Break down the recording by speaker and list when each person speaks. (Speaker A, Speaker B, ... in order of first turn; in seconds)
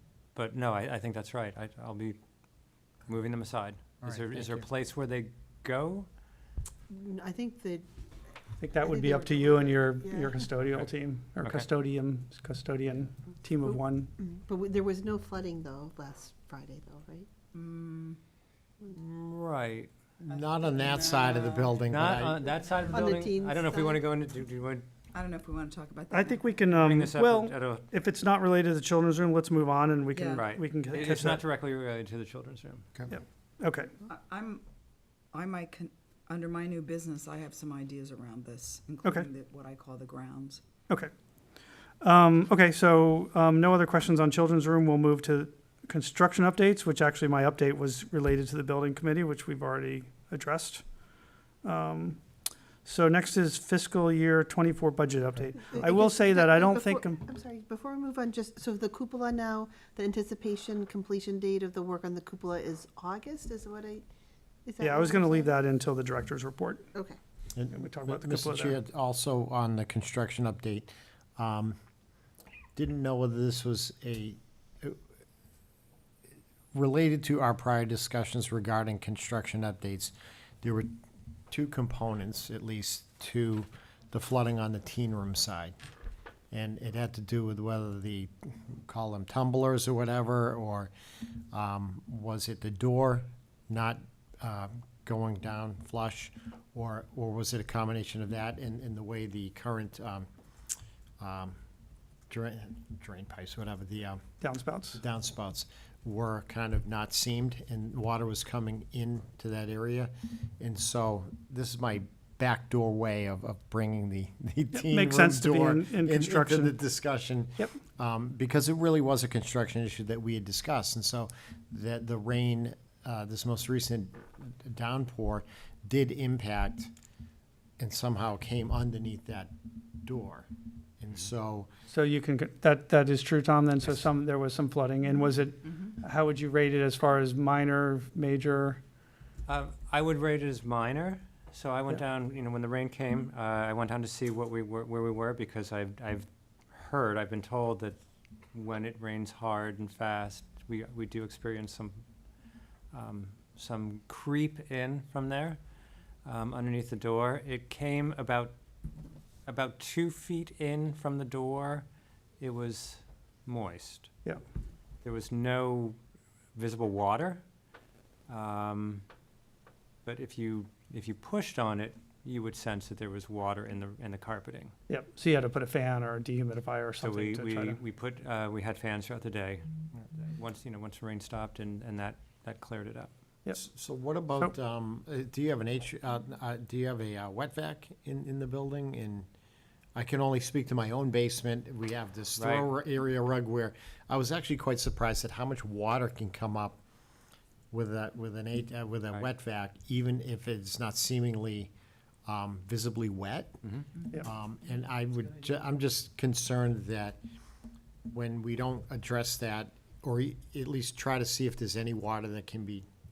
Speaker A: 0.3-2.2, 3.1-6.1, 11.4-11.7, 18.9-19.9, 21.9-24.9, 26.7-27.9, 30.3-32.9, 139.5-148.0, 148.5-152.0, 152.9-155.6, 156.2-158.5, 159.4-161.8, 162.4-164.1, 165.0-166.0, 166.5-167.4, 168.3-169.0, 170.0-174.7, 177.0-183.1, 192.4-192.7
Speaker B: 4.0-4.7, 20.2-22.5, 67.5-71.8, 72.8-75.0, 76.7-80.9, 81.5-85.7, 86.5-90.9, 91.5-100.3, 101.2-101.5, 102.3-104.2, 104.9-126.9, 127.8-129.5, 130.0-130.5, 131.0-131.7, 183.6-189.3, 189.9-196.8, 197.7-201.7, 202.2-203.6, 204.2-207.2, 208.1-212.9
Speaker C: 6.9-7.8, 8.8-10.4, 13.6-17.3, 22.9-24.0, 55.6-64.0, 64.6-65.5
Speaker D: 8.6-14.1, 26.1-31.4, 33.1-33.9, 42.0-50.8, 51.6-52.2, 52.8-57.2, 64.8-66.9, 67.7-68.8, 104.4-105.0, 114.7-116.7, 131.9-138.8, 174.9-177.8
Speaker E: 17.5-18.2, 20.3-21.8, 25.1-26.7, 30.1-30.5, 34.1-34.6, 35.3-40.6, 135.7-135.9